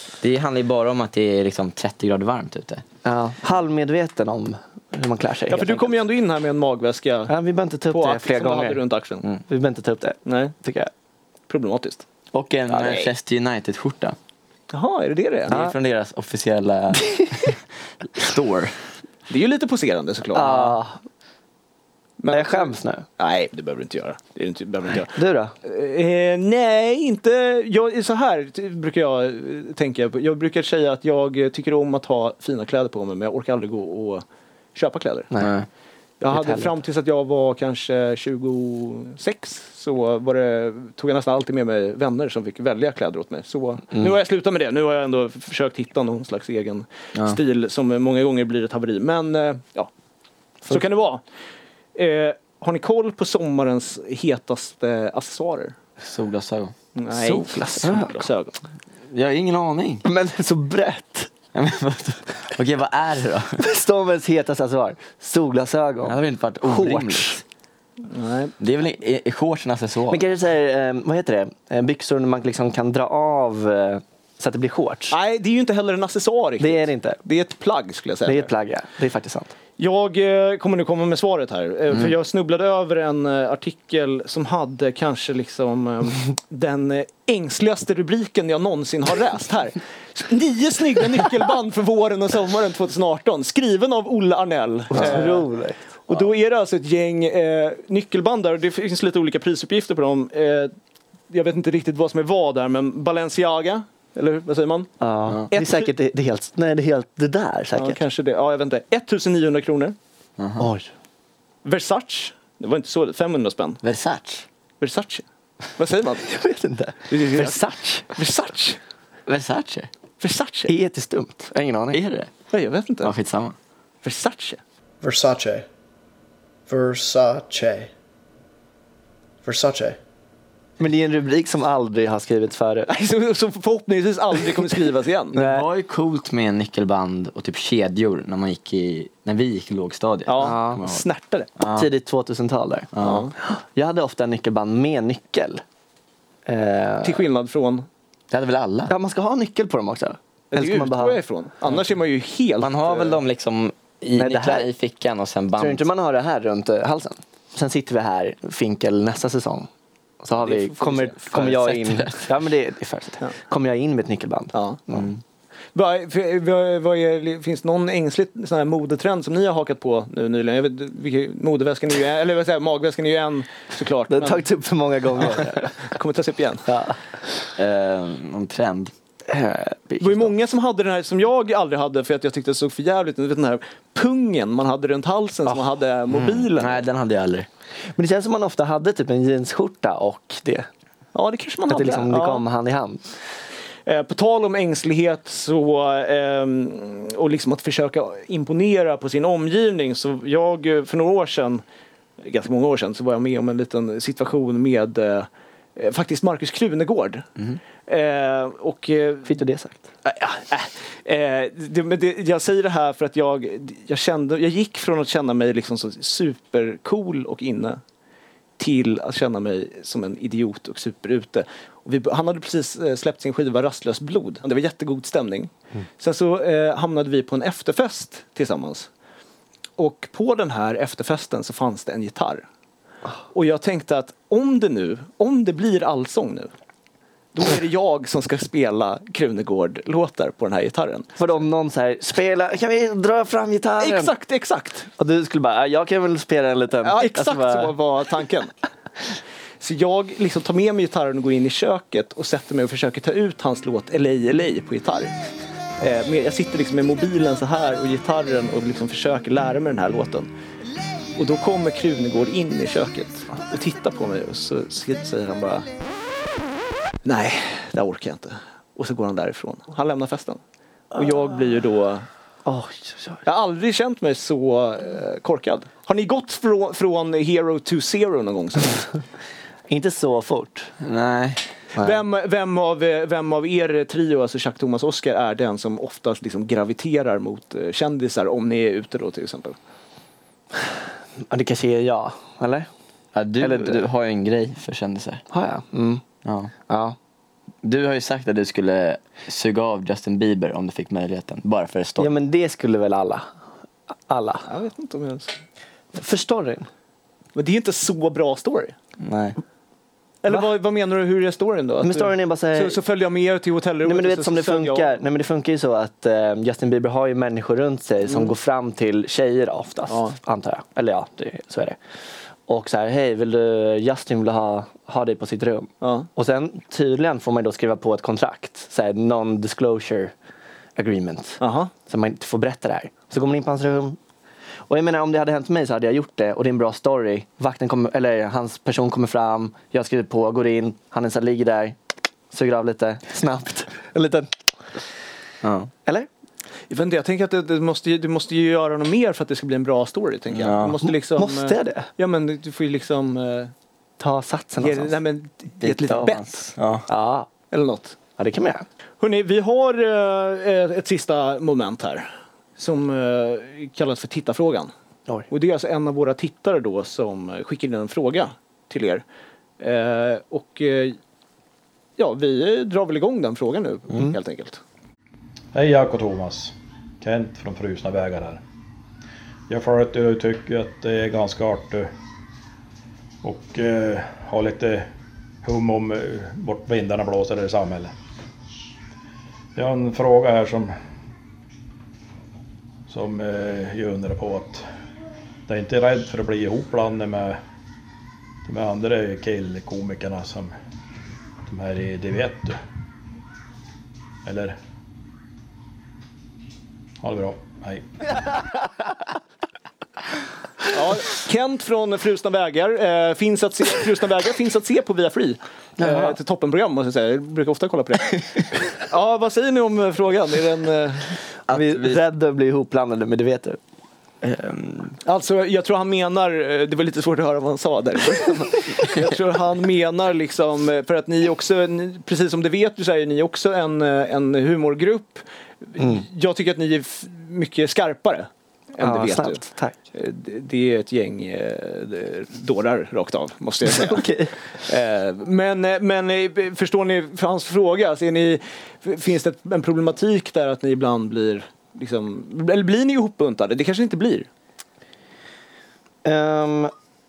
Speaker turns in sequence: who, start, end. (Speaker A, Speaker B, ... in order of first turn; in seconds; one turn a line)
Speaker A: 0.2-2.8
Speaker B: 3.0-5.9
Speaker C: 5.5-7.3
Speaker B: 7.3-8.8
Speaker C: 7.9-9.2
Speaker B: 9.5-10.9
Speaker C: 10.3-10.6
Speaker C: 11.5-12.0
Speaker A: 12.3-14.2
Speaker C: 12.7-13.1
Speaker C: 14.7-15.6
Speaker A: 15.5-18.8
Speaker B: 15.5-15.7
Speaker C: 19.3-20.8
Speaker B: 20.3-21.0
Speaker C: 22.2-34.2
Speaker B: 22.3-23.1
Speaker B: 25.1-25.5
Speaker C: 34.8-35.3
Speaker A: 35.4-35.7
Speaker C: 36.2-49.9
Speaker B: 36.3-36.8
Speaker C: 50.7-51.2
Speaker C: 52.0-55.8
Speaker A: 56.0-56.7
Speaker C: 57.0-58.6
Speaker B: 57.1-58.2
Speaker A: 59.1-60.0
Speaker B: 60.0-61.3
Speaker A: 61.5-63.6
Speaker B: 63.6-67.4
Speaker A: 66.0-67.4
Speaker C: 68.1-68.5
Speaker A: 68.6-70.2
Speaker B: 70.1-75.2
Speaker C: 75.1-78.5
Speaker B: 76.6-77.2
Speaker B: 78.2-79.5
Speaker C: 79.8-95.5
Speaker B: 94.9-95.9
Speaker C: 96.1-100.7
Speaker C: 101.3-104.9
Speaker B: 105.0-108.0
Speaker C: 105.5-105.9
Speaker C: 107.8-110.0
Speaker A: 110.4-110.7
Speaker B: 110.6-110.9
Speaker C: 111.6-113.8
Speaker A: 113.8-114.5
Speaker C: 114.8-115.2
Speaker C: 115.8-116.3
Speaker B: 116.2-118.1
Speaker C: 117.1-118.8
Speaker A: 119.3-119.9
Speaker C: 120.2-120.7
Speaker B: 120.7-122.0
Speaker A: 121.9-122.3
Speaker C: 122.5-123.1
Speaker A: 123.0-123.6
Speaker C: 124.0-124.6
Speaker D: 125.0-125.6
Speaker D: 126.7-127.8
Speaker E: 126.9-127.9
Speaker D: 129.4-129.9
Speaker E: 129.6-129.9
Speaker B: 130.8-132.9
Speaker C: 132.9-135.4
Speaker A: 135.3-141.1
Speaker B: 135.3-135.7
Speaker C: 140.3-141.5
Speaker B: 140.4-140.8
Speaker A: 141.6-141.9
Speaker B: 141.8-142.9
Speaker A: 142.9-143.3
Speaker C: 143.0-143.3
Speaker B: 143.4-145.6
Speaker B: 146.5-147.2
Speaker C: 147.0-147.9
Speaker A: 148.3-148.9
Speaker B: 148.9-151.2
Speaker C: 150.5-153.2
Speaker A: 152.6-155.9
Speaker B: 154.2-154.7
Speaker B: 155.6-159.7
Speaker B: 160.2-165.1
Speaker C: 160.4-161.2
Speaker A: 161.3-162.3
Speaker C: 164.5-164.8
Speaker A: 164.9-165.2
Speaker C: 165.7-174.5
Speaker B: 174.1-175.8
Speaker C: 175.2-176.7
Speaker B: 176.7-177.0
Speaker A: 177.6-178.9
Speaker B: 179.3-180.3
Speaker C: 180.0-186.8
Speaker A: 186.1-187.5
Speaker B: 188.0-190.7
Speaker C: 191.1-192.4
Speaker B: 191.7-193.0
Speaker C: 193.9-201.6
Speaker C: 202.2-207.3
Speaker C: 207.9-209.3
Speaker B: 209.3-209.9
Speaker C: 210.0-217.8
Speaker C: 218.6-228.9
Speaker C: 229.8-232.4
Speaker C: 233.3-236.5
Speaker C: 237.3-241.1
Speaker B: 241.2-244.1
Speaker C: 243.8-244.9
Speaker B: 245.0-247.7
Speaker C: 246.8-248.5
Speaker C: 249.6-255.1
Speaker C: 255.8-260.3
Speaker C: 261.2-265.7
Speaker C: 267.1-270.4
Speaker C: 270.9-272.1
Speaker B: 272.4-273.2
Speaker C: 273.2-278.9
Speaker B: 279.7-280.7
Speaker A: 280.8-281.4
Speaker C: 281.8-289.6
Speaker B: 291.3-292.7
Speaker A: 293.1-295.2
Speaker B: 293.4-293.8
Speaker B: 295.3-296.0
Speaker A: 296.2-296.5
Speaker B: 296.7-297.0
Speaker A: 297.6-302.1
Speaker B: 302.0-303.3
Speaker B: 304.1-304.5
Speaker C: 304.5-305.4
Speaker B: 305.9-306.7
Speaker C: 307.4-308.8
Speaker A: 309.0-309.4
Speaker C: 310.2-314.9
Speaker B: 311.8-312.8
Speaker B: 313.9-321.8
Speaker C: 318.1-318.3
Speaker C: 319.9-320.2
Speaker B: 322.5-330.1
Speaker C: 325.8-326.1
Speaker B: 330.8-334.0
Speaker C: 331.4-331.7
Speaker B: 334.7-341.8
Speaker B: 342.3-344.3
Speaker A: 345.4-345.7
Speaker C: 346.7-353.5
Speaker A: 350.3-350.9
Speaker B: 351.2-351.9
Speaker B: 354.0-354.9
Speaker C: 354.6-356.5
Speaker A: 355.6-356.9
Speaker B: 355.8-356.2
Speaker B: 356.9-357.3
Speaker C: 357.5-358.0
Speaker B: 358.2-358.6
Speaker C: 359.0-364.7
Speaker C: 365.3-369.0
Speaker C: 369.6-371.0
Speaker C: 372.0-374.6
Speaker E: 375.5-378.4
Speaker E: 379.5-381.9
Speaker E: 383.2-384.9
Speaker E: 385.4-387.9
Speaker E: 389.6-390.7
Speaker E: 392.9-394.6
Speaker E: 395.5-397.4
Speaker E: 398.5-400.5
Speaker E: 401.5-402.6
Speaker E: 404.2-404.6
Speaker E: 407.0-407.9
Speaker C: 410.7-421.2
Speaker B: 415.8-416.2
Speaker A: 421.5-422.0
Speaker B: 421.5-423.6
Speaker A: 424.2-425.0
Speaker C: 425.1-444.1
Speaker B: 438.8-439.8
Speaker B: 443.7-444.3
Speaker C: 444.6-454.3
Speaker B: 456.0-456.7